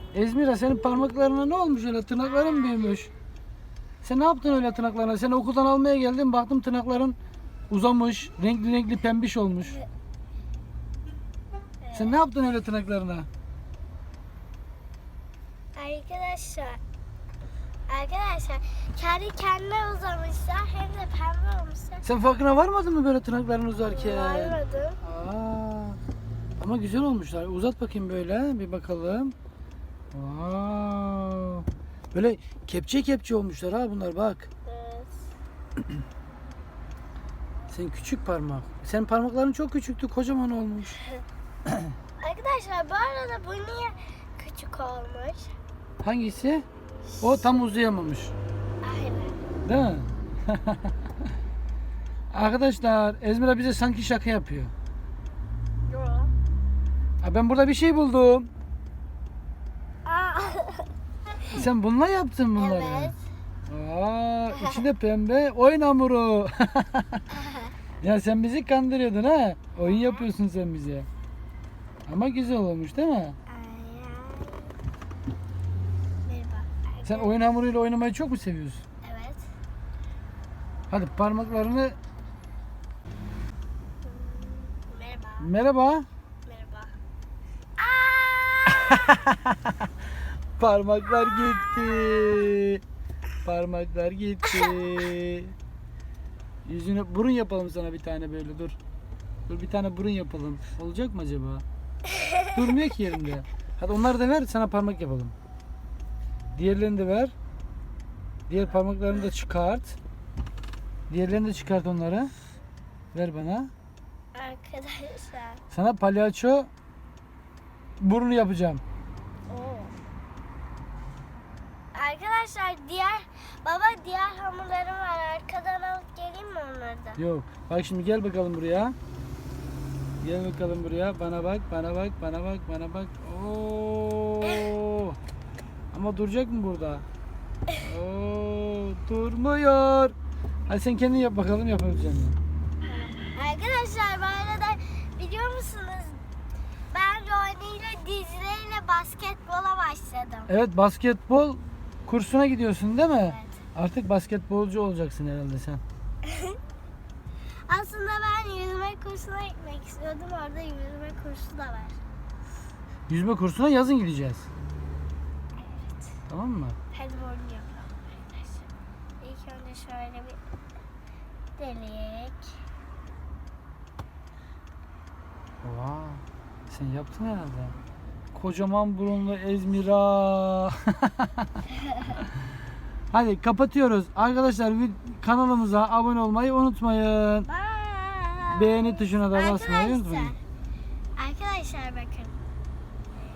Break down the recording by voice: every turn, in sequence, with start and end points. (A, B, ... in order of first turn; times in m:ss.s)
0:00.1-0:03.1 A
0:02.4-0:02.8 B
0:04.0-0:07.2 A
0:07.7-0:09.8 A
0:11.8-0:12.2 B
0:11.9-0:13.3 A
0:15.8-0:16.8 B
0:17.9-0:22.0 B
0:22.0-0:26.0 A
0:23.9-0:25.0 B
0:26.6-0:29.3 A
0:30.1-0:34.5 A
0:34.7-0:35.2 B
0:37.7-0:41.0 A
0:42.2-0:45.5 B
0:46.0-0:46.6 A
0:47.1-0:47.6 B
0:47.2-0:48.3 A
0:48.8-0:49.4 B
0:49.7-0:50.9 A
0:52.3-0:54.7 A
0:55.9-0:56.3 B
0:57.2-0:58.5 A
1:00.1-1:00.9 B
1:01.5-1:03.1 A
1:02.6-1:03.2 B
1:03.7-1:07.2 A
1:04.5-1:04.8 B
1:07.3-1:07.7 B
1:08.0-1:11.1 A
1:09.9-1:10.3 B
1:12.1-1:13.4 A
1:13.5-1:14.7 B
1:16.2-1:17.4 B
1:17.0-1:18.8 A
1:19.0-1:19.4 B
1:20.9-1:22.0 A
1:24.0-1:25.5 B
1:25.4-1:26.1 A
1:26.4-1:27.0 B
1:27.8-1:29.3 B
1:28.9-1:29.7 A
1:30.6-1:32.8 A
1:31.2-1:32.5 B
1:33.4-1:35.6 A
1:36.6-1:38.8 A
1:39.5-1:41.6 A
1:42.1-1:42.5 B
1:42.5-1:45.3 A
1:46.6-1:47.3 A
1:48.5-1:50.0 A
1:51.1-1:52.3 A
1:53.1-1:53.7 A
1:54.3-1:55.6 B
1:55.7-1:56.7 A
1:58.0-1:58.8 A
1:59.5-2:00.0 B
2:01.9-2:07.2 B
2:07.2-2:09.0 A
2:10.2-2:15.2 A
2:15.9-2:17.0 A
2:17.8-2:20.2 A
2:20.7-2:22.4 A
2:22.8-2:26.2 B
2:26.9-2:30.5 B
2:30.5-2:35.8 A
2:33.2-2:33.6 B
2:36.2-2:36.6 B
2:37.7-2:42.0 B
2:43.1-2:44.5 A
2:45.6-2:46.1 B
2:46.3-2:46.8 A
2:46.9-2:48.7 B
2:49.2-2:50.4 B
2:51.6-2:52.5 B
2:55.6-2:57.8 A
2:58.3-3:01.6 A
3:01.8-3:02.2 B
3:03.1-3:07.5 A
3:07.5-3:10.4 B
3:08.5-3:10.3 A
3:11.2-3:12.4 B